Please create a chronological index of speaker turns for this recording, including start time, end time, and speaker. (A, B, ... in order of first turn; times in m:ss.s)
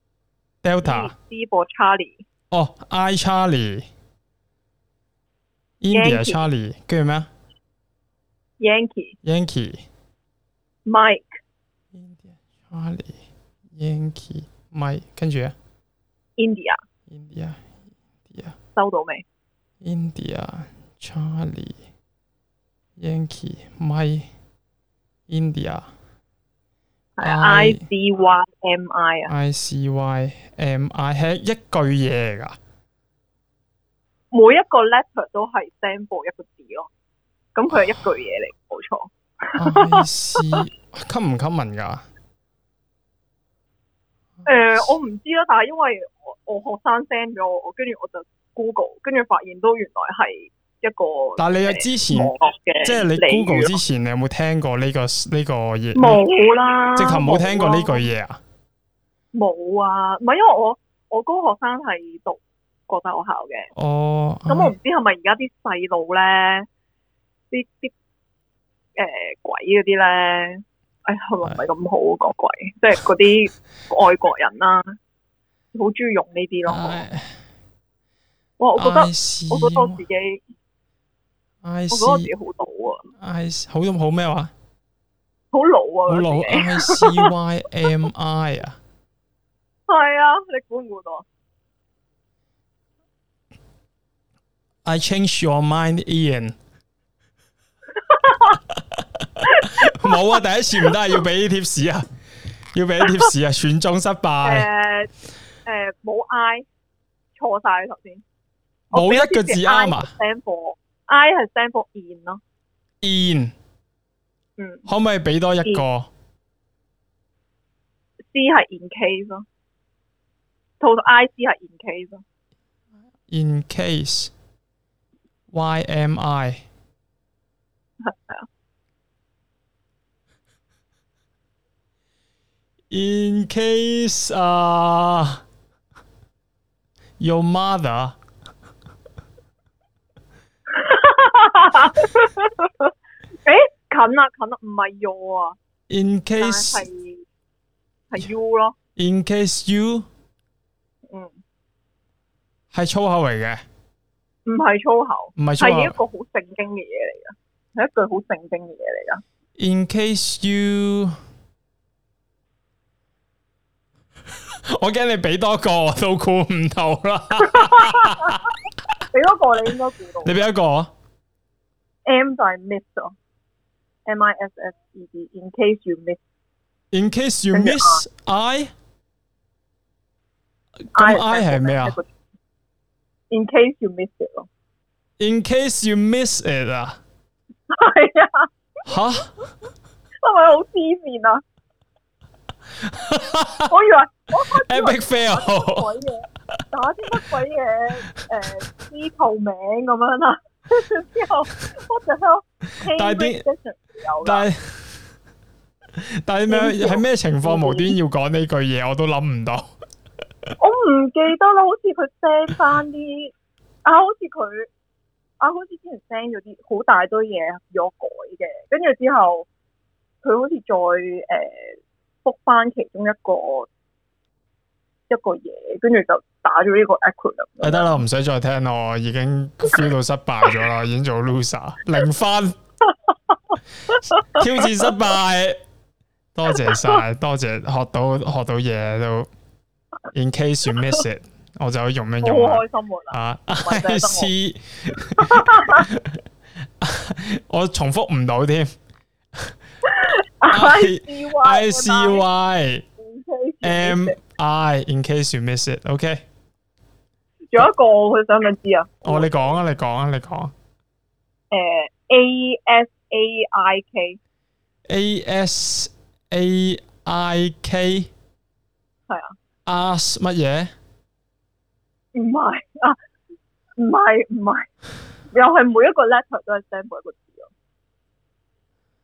0:00.6-0:01.1 A
0:00.8-0:02.2 B
0:02.5-0:03.9 A
0:05.8-0:07.3 A
0:05.9-0:06.4 B
0:08.6-0:09.2 B
0:09.2-0:09.8 A
0:10.9-0:11.4 B
0:11.9-0:13.2 A
0:13.8-0:15.6 A
0:16.4-0:16.8 B
0:17.1-0:17.6 A
0:18.3-0:18.6 A
0:18.8-0:19.2 B
0:19.8-0:21.8 A
0:23.0-0:24.3 A
0:25.3-0:25.9 A
0:27.2-0:29.3 B
0:27.2-0:27.8 A
0:29.3-0:32.6 A
0:34.3-0:36.9 B
0:37.6-0:40.6 B
0:39.6-0:42.0 A
0:44.4-0:53.8 B
0:51.4-0:52.3 A
0:52.8-0:56.2 A
0:55.9-0:58.1 B
0:57.0-0:58.4 A
0:59.3-1:03.7 B
1:03.8-1:04.8 A
1:04.5-1:06.7 B
1:07.5-1:07.9 B
1:09.0-1:14.8 B
1:15.7-1:17.0 B
1:16.7-1:17.3 A
1:18.6-1:20.4 B
1:18.8-1:20.0 A
1:21.6-1:22.3 A
1:21.9-1:23.1 B
1:23.2-1:24.5 A
1:25.5-1:27.3 B
1:26.1-1:28.8 A
1:29.9-1:31.2 B
1:34.8-1:36.6 A
1:38.1-1:38.4 B
1:39.4-1:42.1 A
1:42.7-1:44.7 A
1:43.0-1:43.3 B
1:44.4-1:45.1 B
1:45.7-1:46.6 B
1:47.4-1:48.2 B
1:48.9-1:52.4 B
1:48.9-1:50.1 A
1:53.0-1:53.5 A
1:54.6-1:54.9 B
1:54.9-1:56.1 A
1:58.3-1:59.4 B
2:00.8-2:02.2 B
2:03.3-2:04.3 A
2:05.5-2:06.6 A
2:08.0-2:08.4 B
2:12.9-2:15.4 A
2:17.2-2:18.2 A
2:20.7-2:22.9 B
2:23.4-2:25.6 B
2:25.9-2:26.8 A
2:26.4-2:27.2 B
2:28.1-2:28.8 B
2:29.0-2:30.1 A
2:31.1-2:31.3 B
2:32.7-2:33.6 A
2:34.4-2:39.2 B
2:35.4-2:35.9 A
2:39.6-2:41.2 A
2:44.7-2:48.4 A
2:47.6-2:48.3 B
2:49.1-2:50.4 B
2:50.2-2:50.9 A
2:52.1-2:53.1 B
2:54.1-2:56.2 B
2:56.9-2:58.7 A
2:57.5-2:58.0 B
3:00.9-3:02.0 A
3:00.9-3:02.1 B
3:03.3-3:04.5 B
3:05.2-3:07.0 A
3:07.7-3:08.5 B
3:08.8-3:09.3 A
3:10.2-3:11.4 B
3:12.8-3:13.7 A
3:13.7-3:24.5 B
3:14.5-3:15.9 A
3:22.9-3:23.4 A
3:24.2-3:24.6 A
3:26.2-3:29.7 A
3:26.5-3:27.9 B
3:30.6-3:33.3 B
3:33.8-3:34.7 B
3:35.4-3:39.4 B
3:40.2-3:43.7 B
3:45.1-3:48.0 B
3:47.6-3:52.6 A
3:54.3-3:55.6 A
3:56.3-3:59.3 A
3:56.7-3:57.0 B
4:00.1-4:06.2 A
4:02.2-4:04.3 B
4:05.2-4:05.8 B
4:06.8-4:08.7 A
4:09.8-4:12.3 B
4:10.5-4:12.8 A
4:13.0-4:14.2 B
4:13.6-4:16.2 A
4:17.5-4:19.6 B
4:19.0-4:20.5 A
4:21.5-4:24.2 B
4:24.9-4:28.1 A
4:29.1-4:29.3 B
4:29.7-4:30.7 A
4:32.2-4:33.0 B
4:33.8-4:34.7 B
4:35.3-4:37.5 B